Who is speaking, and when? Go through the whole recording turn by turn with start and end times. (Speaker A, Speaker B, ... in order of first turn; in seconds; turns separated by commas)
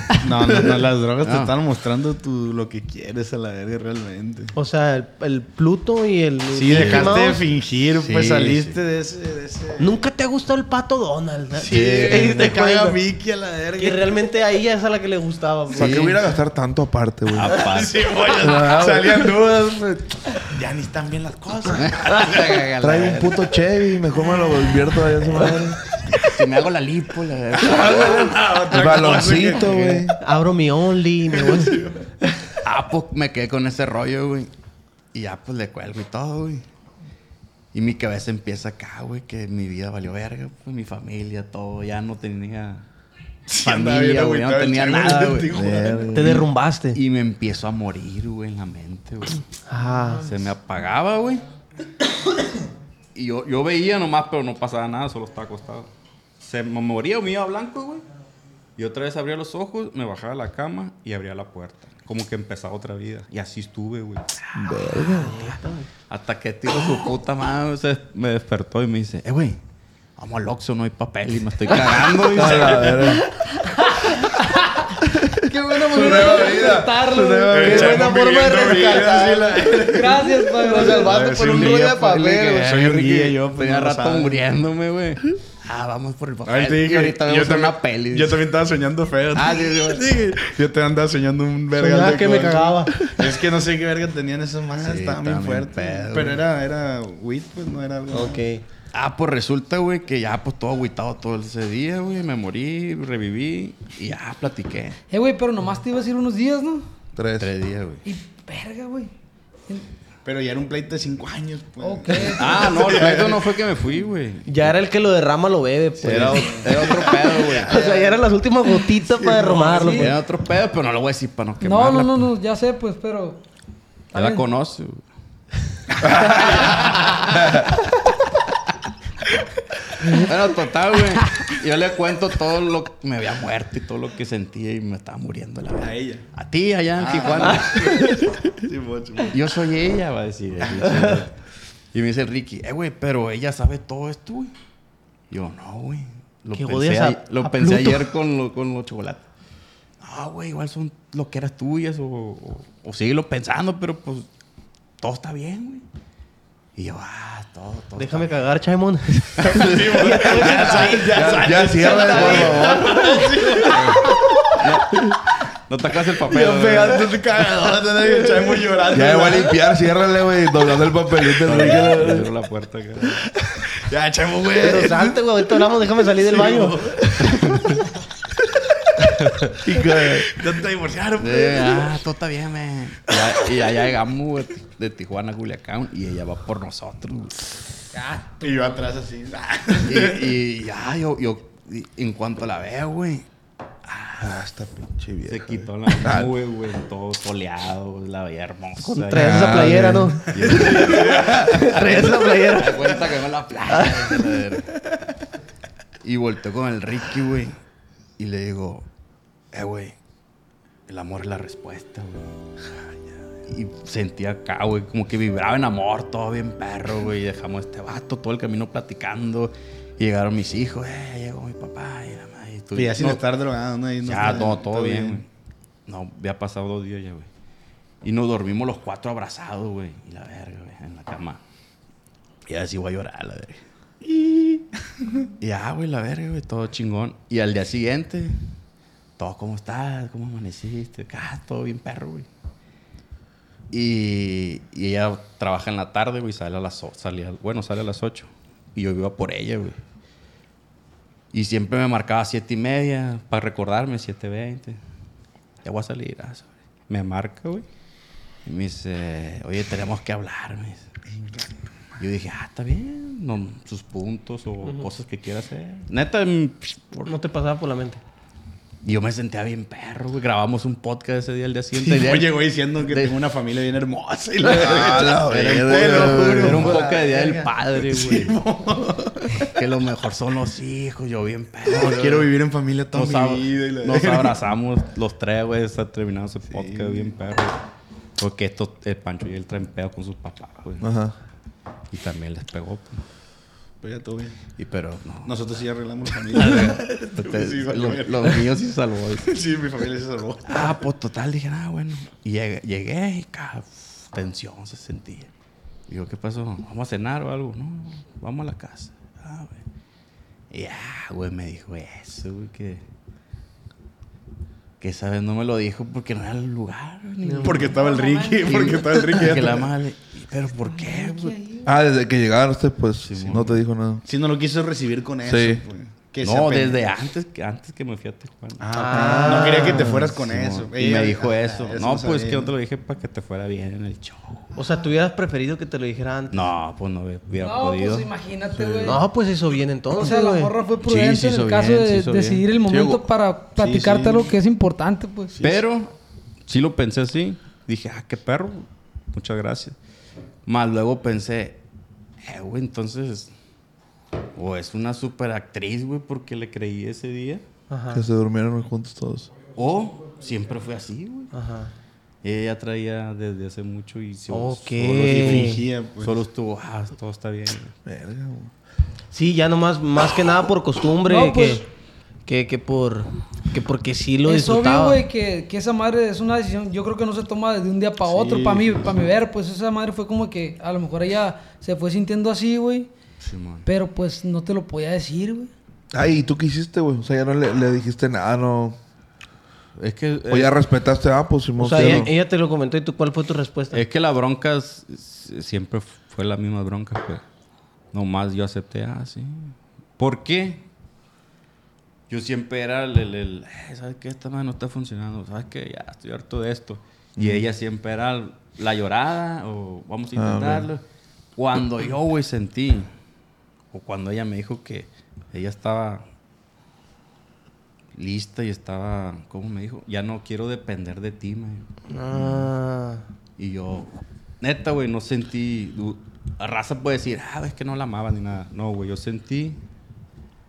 Speaker A: 0.2-4.5, Speaker B: 1.2-1.5, Speaker C: 4.5-7.4, Speaker A: 6.5-10.0, Speaker B: 6.7-7.3, Speaker B: 8.0-8.8, Speaker C: 9.8-13.0, Speaker A: 11.6-14.2, Speaker B: 11.7-12.5, Speaker C: 13.8-16.1, Speaker D: 15.7-17.7, Speaker B: 15.8-16.2, Speaker B: 17.3-18.1, Speaker A: 17.6-22.6, Speaker D: 18.3-19.4, Speaker B: 21.7-23.4, Speaker D: 22.8-25.8, Speaker B: 26.1-28.5, Speaker A: 27.6-30.1, Speaker D: 28.7-30.2, Speaker C: 30.2-31.8, Speaker A: 31.3-32.1, Speaker B: 32.6-34.5, Speaker B: 35.1-36.6, Speaker B: 37.7-42.8, Speaker A: 43.5-46.3, Speaker B: 43.6-46.4, Speaker D: 45.5-46.5, Speaker C: 46.1-47.0, Speaker B: 46.9-49.4, Speaker C: 49.7-50.3, Speaker B: 50.2-51.4, Speaker B: 53.1-55.9, Speaker B: 56.4-58.0, Speaker B: 58.8-64.8, Speaker D: 64.5-65.4, Speaker C: 65.1-65.9, Speaker B: 66.1-69.6, Speaker B: 70.2-73.2, Speaker D: 72.3-73.2, Speaker E: 73.5-77.7, Speaker D: 75.0-78.1, Speaker A: 77.5-84.4, Speaker C: 77.6-79.8, Speaker E: 79.8-81.3, Speaker C: 80.6-82.4, Speaker B: 81.3-88.5, Speaker A: 86.5-98.4, Speaker B: 89.3-90.4, Speaker C: 91.8-93.0, Speaker B: 94.8-96.4, Speaker C: 98.1-98.6, Speaker B: 98.9-105.0, Speaker E: 105.1-106.8, Speaker D: 107.2-107.5, Speaker B: 107.4-108.0, Speaker E: 108.0-109.1, Speaker A: 110.2-113.5, Speaker E: 111.8-113.0, Speaker B: 112.1-114.8, Speaker C: 114.5-120.2, Speaker B: 116.0-118.1, Speaker A: 116.1-118.1, Speaker A: 119.1-120.1, Speaker E: 119.8-120.1, Speaker B: 119.9-122.3, Speaker E: 121.6-123.4, Speaker E: 124.1-124.4, Speaker B: 124.1-125.0, Speaker D: 126.0-126.4, Speaker B: 126.2-126.9, Speaker D: 127.3-127.7, Speaker B: 130.1-138.2, Speaker A: 135.8-136.2, Speaker A: 137.0-139.4, Speaker B: 139.3-141.3, Speaker B: 141.9-144.5, Speaker B: 145.3-149.3, Speaker C: 146.5-148.1, Speaker B: 150.0-154.3, Speaker B: 155.0-155.8, Speaker B: 156.8-158.4, Speaker C: 158.0-161.2, Speaker A: 159.5-164.6, Speaker B: 160.2-162.8, Speaker D: 161.2-163.2, Speaker C: 161.9-163.2, Speaker B: 163.7-164.0, Speaker B: 164.6-167.2, Speaker A: 166.2-169.7, Speaker D: 168.9-172.3, Speaker B: 171.4-173.2, Speaker A: 171.4-171.9, Speaker A: 173.2-175.2, Speaker C: 174.6-176.8, Speaker A: 176.2-177.7, Speaker B: 179.2-179.6, Speaker D: 179.6-180.3, Speaker A: 179.8-181.9, Speaker B: 181.2-187.5, Speaker E: 187.9-188.7, Speaker A: 188.4-190.3, Speaker B: 189.8-193.3, Speaker B: 193.8-194.4, Speaker D: 194.2-196.3, Speaker B: 195.3-204.7, Speaker C: 198.8-203.0, Speaker D: 199.1-201.3, Speaker A: 200.5-201.4, Speaker C: 203.7-204.1, Speaker B: 206.0-207.6, Speaker B: 208.2-208.9, Speaker B: 209.5-210.0, Speaker B: 210.9-212.4, Speaker B: 213.5-223.2, Speaker A: 222.8-225.2, Speaker B: 224.0-225.3, Speaker B: 225.9-227.3, Speaker B: 228.0-231.4, Speaker B: 232.5-233.6, Speaker A: 234.0-235.1, Speaker B: 235.4-238.4, Speaker B: 239.2-242.3, Speaker B: 243.7-249.8, Speaker B: 251.3-254.8, Speaker B: 255.6-257.6, Speaker B: 258.4-260.9, Speaker A: 261.1-261.5, Speaker B: 262.0-267.1, Speaker C: 267.1-268.0, Speaker B: 268.8-273.2, Speaker A: 271.8-279.5, Speaker D: 274.4-276.8, Speaker B: 274.5-278.4, Speaker B: 279.5-282.3, Speaker A: 281.7-284.4, Speaker B: 282.9-287.6, Speaker A: 286.5-287.1, Speaker B: 288.2-290.9, Speaker D: 290.8-291.1, Speaker B: 291.9-293.0, Speaker A: 293.8-294.4, Speaker B: 294.6-295.4, Speaker A: 295.3-298.4, Speaker B: 296.3-299.4, Speaker A: 299.3-300.8, Speaker B: 300.5-305.3, Speaker B: 305.9-309.6, Speaker B: 310.5-312.8, Speaker B: 314.8-317.8, Speaker C: 317.2-317.7, Speaker A: 317.4-319.7, Speaker E: 317.8-318.6, Speaker B: 318.4-321.4, Speaker E: 320.8-321.7, Speaker D: 321.6-324.0, Speaker B: 323.0-323.6, Speaker A: 324.1-326.9, Speaker D: 325.2-325.6, Speaker B: 326.2-328.6, Speaker A: 328.6-332.5, Speaker C: 328.7-329.9, Speaker D: 328.9-330.1, Speaker B: 329.8-334.5, Speaker C: 334.6-336.5, Speaker B: 336.3-338.8, Speaker E: 337.4-339.1, Speaker C: 338.8-340.6, Speaker E: 339.9-345.4, Speaker B: 340.8-343.0, Speaker A: 343.6-344.4, Speaker A: 345.4-345.6, Speaker B: 345.4-345.9, Speaker B: 346.5-349.8, Speaker B: 350.5-351.6, Speaker B: 352.2-353.3, Speaker B: 354.4-357.4, Speaker C: 357.7-358.0, Speaker D: 357.9-359.3, Speaker B: 359.6-361.3, Speaker C: 361.3-361.7, Speaker B: 362.2-367.7, Speaker C: 364.3-365.6, Speaker A: 365.0-366.1, Speaker D: 367.9-368.5, Speaker C: 369.1-371.6, Speaker E: 371.1-371.6, Speaker C: 372.3-375.0, Speaker E: 374.2-382.9, Speaker A: 378.0-379.1, Speaker B: 383.2-383.7, Speaker E: 383.6-385.5, Speaker D: 385.9-388.8, Speaker B: 389.8-390.6, Speaker D: 390.3-392.1, Speaker C: 391.6-393.8, Speaker B: 393.7-397.2, Speaker B: 397.9-400.6, Speaker B: 402.1-410.8, Speaker D: 407.2-407.5, Speaker D: 410.1-410.7, Speaker B: 411.4-412.9, Speaker B: 413.7-416.0, Speaker B: 417.9-421.7, Speaker C: 421.9-423.1, Speaker B: 423.4-423.9, Speaker B: 424.4-429.6